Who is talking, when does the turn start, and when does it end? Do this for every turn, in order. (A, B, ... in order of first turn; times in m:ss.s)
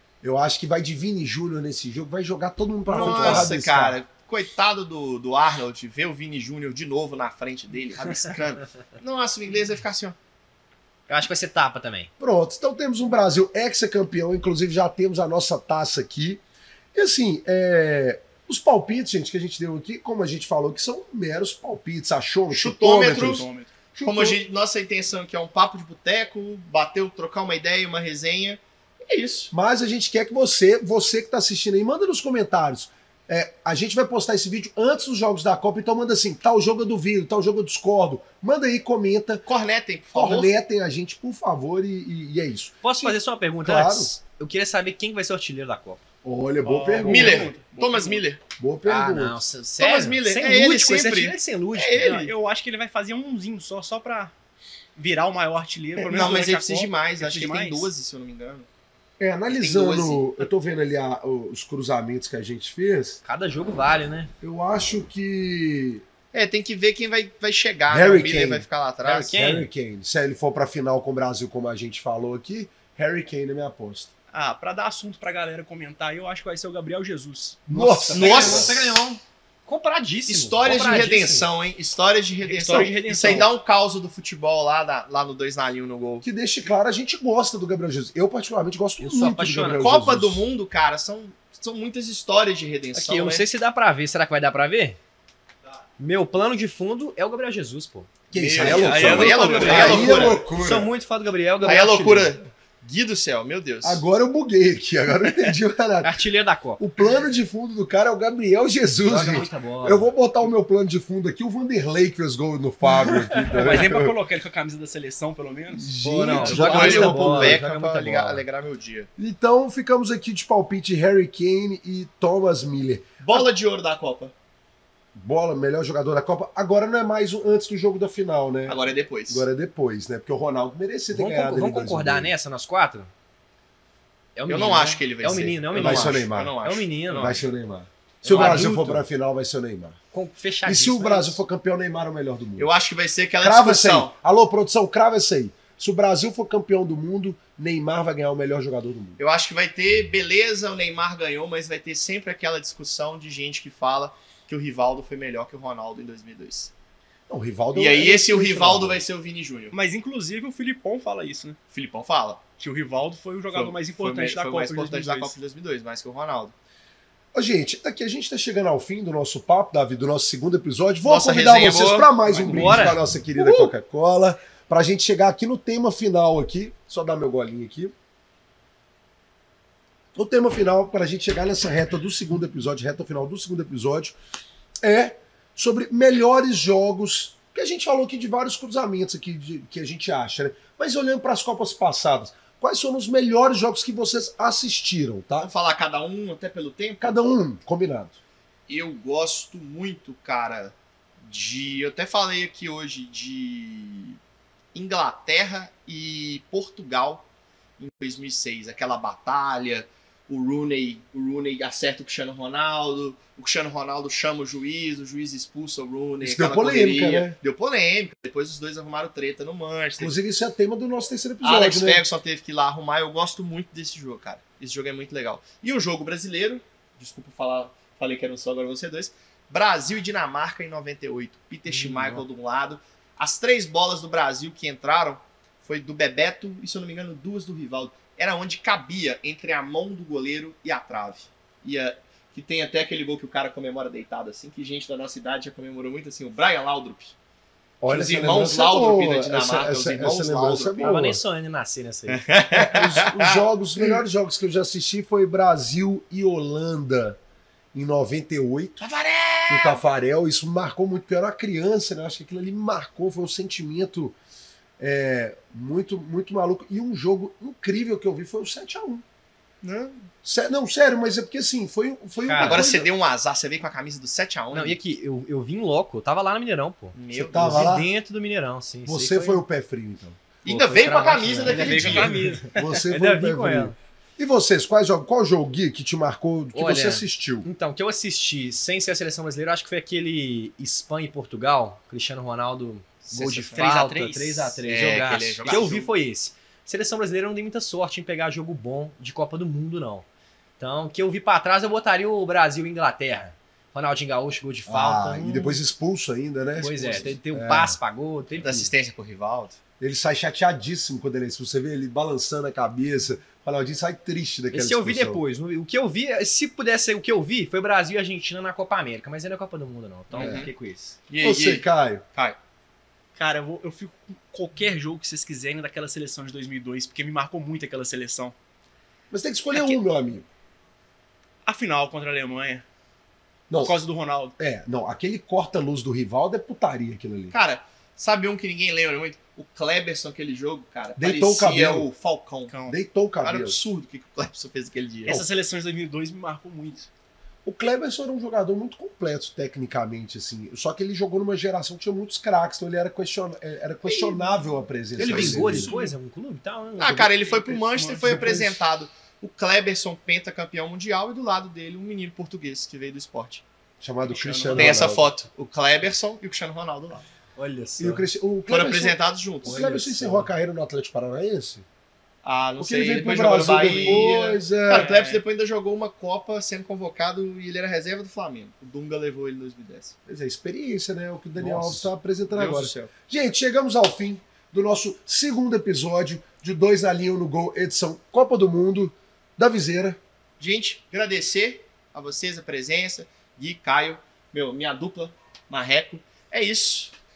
0:00.2-0:04.0 A
0:02.9-0:10.2 B
0:03.0-0:03.4 C
0:03.0-0:03.4 D
0:11.1-0:12.1 C
0:12.2-0:16.4 A
0:16.9-0:24.4 A
0:22.5-0:23.5 B
0:22.9-0:23.7 D
0:24.0-0:29.5 B
0:29.5-0:39.4 A
0:39.5-0:40.5 B
0:40.2-0:44.1 A
0:42.8-0:46.0 C
0:46.2-0:47.5 A
0:46.6-0:48.2 D
0:47.0-0:48.4 B
0:48.6-0:49.4 A
0:48.8-0:52.2 C
0:49.8-0:52.3 B
0:52.0-0:54.3 D
0:55.0-0:57.9 D
0:56.0-0:58.7 B
0:59.2-1:03.2 A
0:59.5-1:00.4 B
1:03.2-1:04.3 C
1:04.4-1:06.0 A
1:06.3-1:09.3 B
1:07.9-1:14.1 A
1:09.0-1:09.7 C
1:09.3-1:09.6 D
1:14.3-1:18.5 D
1:17.7-1:18.8 A
1:17.8-1:21.5 C
1:18.1-1:19.0 B
1:20.3-1:26.2 B
1:22.4-1:23.5 D
1:26.2-1:30.5 A
1:29.0-1:29.8 C
1:29.7-1:33.5 B
1:32.9-1:35.0 C
1:36.0-1:42.4 C
1:38.3-1:40.9 A
1:38.3-1:40.4 B
1:38.6-1:40.1 D
1:41.6-1:44.0 B
1:43.8-1:46.2 A
1:46.0-1:46.8 C
1:46.8-1:54.2 A
1:49.0-1:50.1 C
1:53.1-1:53.8 C
1:53.5-1:55.9 D
1:55.7-1:57.7 A
1:56.0-1:58.4 C
1:56.4-1:59.1 B
1:59.2-2:03.1 A
2:03.2-2:04.3 B
2:05.2-2:12.3 A
2:08.7-2:09.5 B
2:11.1-2:13.1 C
2:14.4-2:17.3 C
2:14.5-2:17.5 B
2:15.7-2:16.6 A
2:17.1-2:20.0 A
2:18.2-2:18.8 B
2:18.2-2:19.0 C
2:20.1-2:21.4 C
2:20.6-2:22.7 A
2:22.6-2:24.1 B
2:23.4-2:29.2 A
2:29.2-2:36.7 B
2:37.3-2:39.0 A
2:37.7-2:39.8 B
2:39.7-2:41.6 D
2:41.7-2:42.4 B
2:42.6-2:45.3 D
2:43.5-2:46.5 B
2:47.3-2:57.9 A
2:51.0-2:52.4 B
2:52.3-2:53.7 C
3:00.2-3:04.2 A
3:04.8-3:15.5 A
3:15.4-3:17.2 B
3:17.0-3:18.2 A
3:18.7-3:24.2 B
3:24.7-3:27.3 B
3:27.8-3:40.2 B
3:36.2-3:37.4 A
3:40.0-3:42.0 A
3:41.4-4:07.1 B
3:51.7-3:52.2 C
4:07.8-4:11.2 A
4:07.9-4:10.9 B
4:10.8-4:12.2 C
4:12.1-4:14.0 B
4:12.5-4:17.2 A
4:17.7-4:18.8 A
4:18.8-4:19.8 B
4:19.5-4:24.2 A
4:24.8-4:29.0 A
4:29.6-4:30.1 B
4:30.2-4:32.9 A
4:32.2-4:32.7 C
4:32.4-4:34.8 B
4:34.5-4:39.4 C
4:37.0-4:37.7 B
4:37.1-4:37.9 A
4:38.9-4:40.2 A
4:40.4-4:42.2 B
4:40.4-4:43.8 C
4:41.4-4:42.8 D
4:42.5-4:47.5 A
4:46.5-5:00.0 C
4:53.1-4:53.7 B
4:53.6-4:54.6 D
4:54.7-4:55.9 B
4:55.4-4:55.7 D
5:00.6-5:05.6 C
5:04.7-5:07.8 A
5:06.6-5:08.7 C
5:08.4-5:09.6 B
5:09.8-5:15.2 A
5:14.5-5:21.0 C
5:20.1-5:20.5 B
5:21.1-5:22.4 B
5:21.2-5:22.0 A
5:23.2-5:28.4 D
5:29.1-5:30.3 A
5:31.4-5:32.6 D
5:33.5-5:33.8 A
5:33.6-5:34.4 D
5:34.4-5:37.3 A
5:37.3-5:42.6 B
5:41.0-5:41.9 A
5:42.5-5:42.8 D
5:42.7-5:43.6 A
5:43.2-5:45.3 B
5:45.1-5:46.9 D
5:47.4-5:55.7 A
5:53.9-5:54.2 D
5:55.0-5:57.2 C
5:55.0-5:56.0 D
5:56.8-6:03.4 B
5:57.4-5:58.6 D
5:58.1-5:58.4 A
6:03.8-6:05.1 A
6:04.1-6:04.9 D
6:04.5-6:07.0 B
6:07.4-6:08.0 C
6:07.8-6:11.6 A
6:08.5-6:09.6 B
6:09.4-6:10.3 C
6:12.2-6:19.9 B
6:12.6-6:14.9 A
6:13.6-6:14.2 D
6:14.7-6:15.2 D
6:20.1-6:30.0 A
6:21.5-6:22.9 B
6:30.4-6:36.9 B